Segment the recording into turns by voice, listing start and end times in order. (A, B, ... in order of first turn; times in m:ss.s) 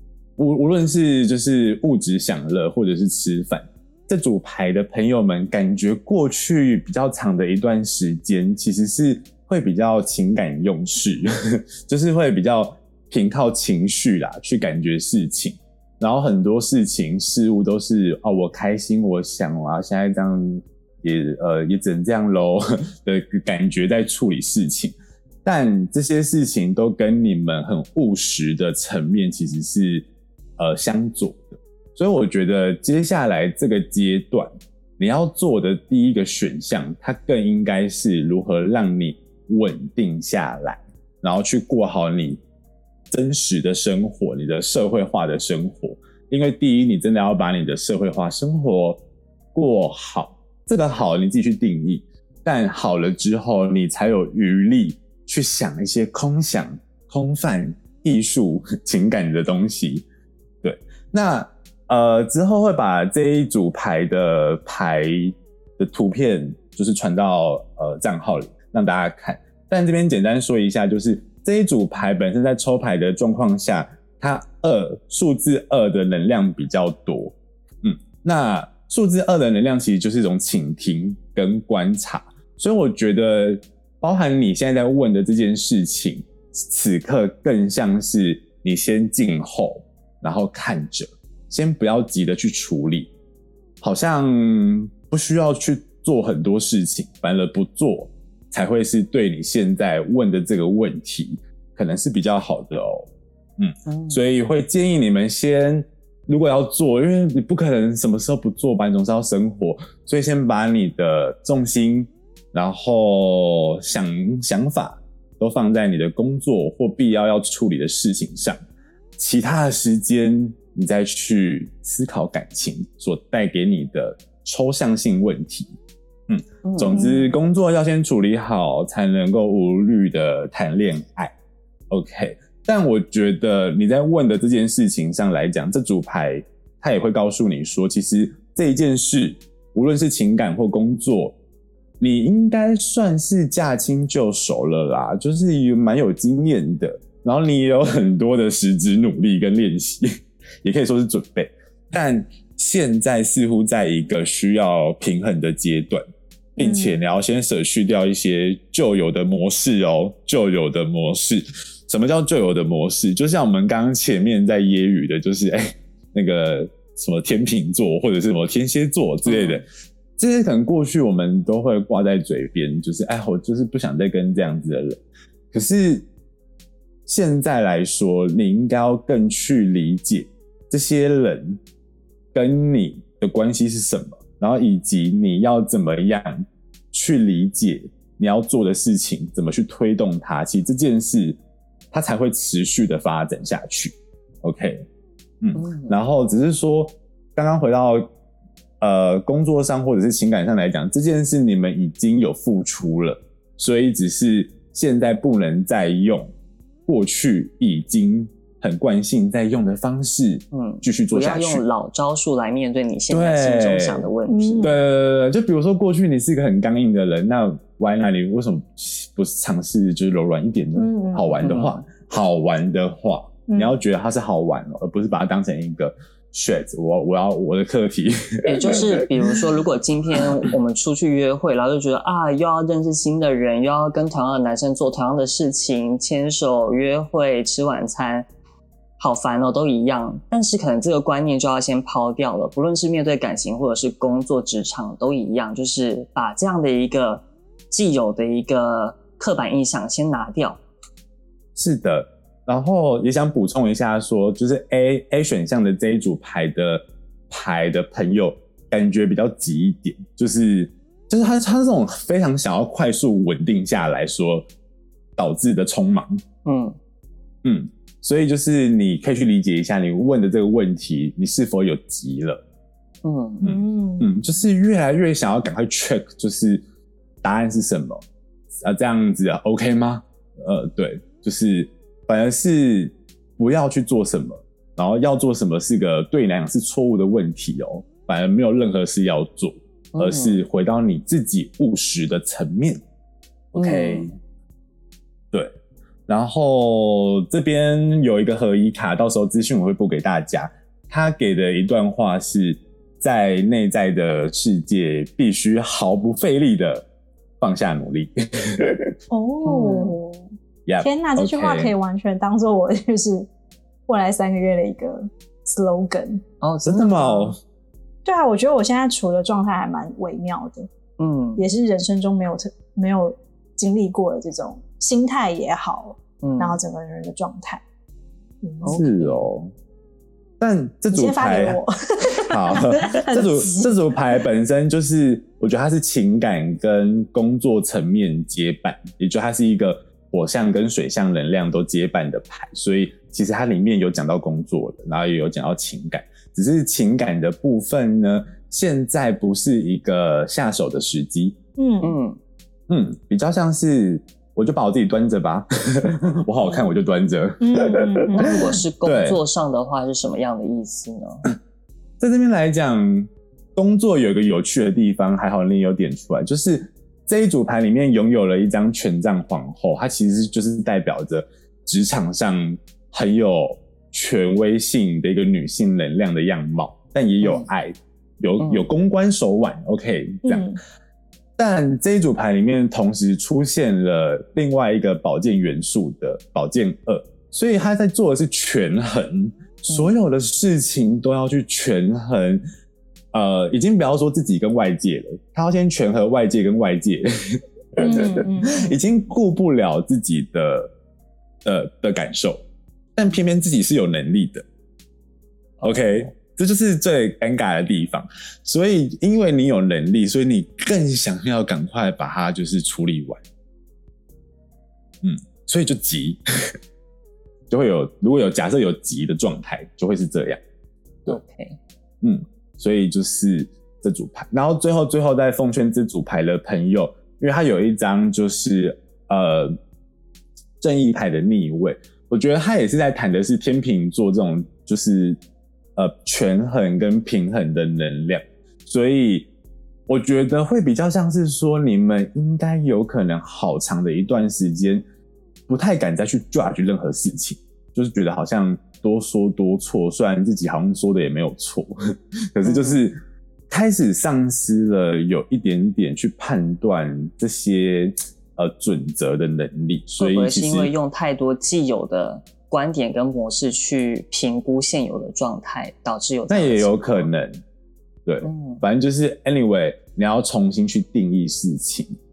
0:00.4-0:30.1 A
0:30.6-0:42.4 A
0:43.1-0:49.0 A
0:49.5-1:00.1 A
1:00.6-1:33.1 A
1:33.8-1:58.6 A
1:43.9-1:44.2 B
1:59.2-2:05.8 A
2:06.3-2:11.3 A
2:06.6-2:07.2 B
2:11.9-2:21.4 A
2:22.0-2:36.0 A
2:36.6-2:49.6 A
2:36.6-2:37.0 C
2:49.3-2:49.6 B
2:50.2-2:56.1 A
2:57.1-3:01.6 A
3:02.3-3:11.4 A
3:11.9-3:14.9 A
3:15.4-3:18.1 A
3:15.6-3:16.0 B
3:18.8-3:26.3 A
3:26.9-3:31.6 A
3:30.5-3:34.7 B
3:33.1-3:34.0 A
3:34.3-3:34.8 C
3:34.6-3:49.0 A
3:40.8-3:41.3 C
3:41.4-3:41.8 B
3:43.5-3:43.8 C
3:48.4-3:58.3 B
3:59.0-4:10.6 B
4:11.6-4:24.5 A
4:25.2-4:26.2 A
4:26.4-4:26.8 B
4:27.4-4:32.4 A
4:33.0-4:33.5 B
4:33.4-4:36.6 A
4:33.4-4:34.2 C
4:37.2-4:38.0 A
4:38.5-4:52.8 A
4:49.9-4:50.4 B
4:53.5-4:54.2 A
4:53.6-4:54.1 B
4:56.1-5:06.9 A
5:07.4-5:09.0 A
5:09.1-5:13.3 C
5:09.4-5:10.0 B
5:10.7-5:11.7 A
5:13.9-5:16.2 C
5:16.4-5:17.1 B
5:16.6-5:17.4 A
5:16.8-5:17.2 C
5:18.0-5:20.7 C
5:21.0-5:21.5 B
5:21.4-5:27.6 C
5:26.2-5:26.6 B
5:28.4-5:28.7 C
5:28.6-5:29.2 B
5:28.7-5:29.5 A
5:30.4-5:31.6 A
5:30.9-5:34.2 C
5:32.3-5:51.4 A
5:51.6-5:52.0 C
5:51.8-5:52.2 B
5:52.7-5:59.2 A
5:57.4-5:58.5 C
5:58.1-6:01.3 B
6:02.0-6:20.4 A
6:18.4-6:18.7 B
6:20.2-6:20.6 C
6:21.4-6:32.4 A
6:33.1-6:40.7 A
6:37.8-6:38.8 C
6:41.4-6:42.4 A
6:43.0-6:44.4 A
6:45.6-6:46.1 B
6:45.6-6:53.2 A
6:55.0-6:56.2 A
6:57.5-7:00.4 A
7:01.1-7:01.6 B
7:02.0-7:09.6 A
7:10.6-7:15.2 A
7:15.8-7:19.3 A
7:19.9-7:24.8 A
7:25.5-7:31.7 A
7:32.3-7:40.7 A
7:32.4-7:32.8 B
7:40.0-7:47.1 B
7:46.3-7:47.4 A
7:48.1-7:52.0 A
7:48.2-7:48.6 B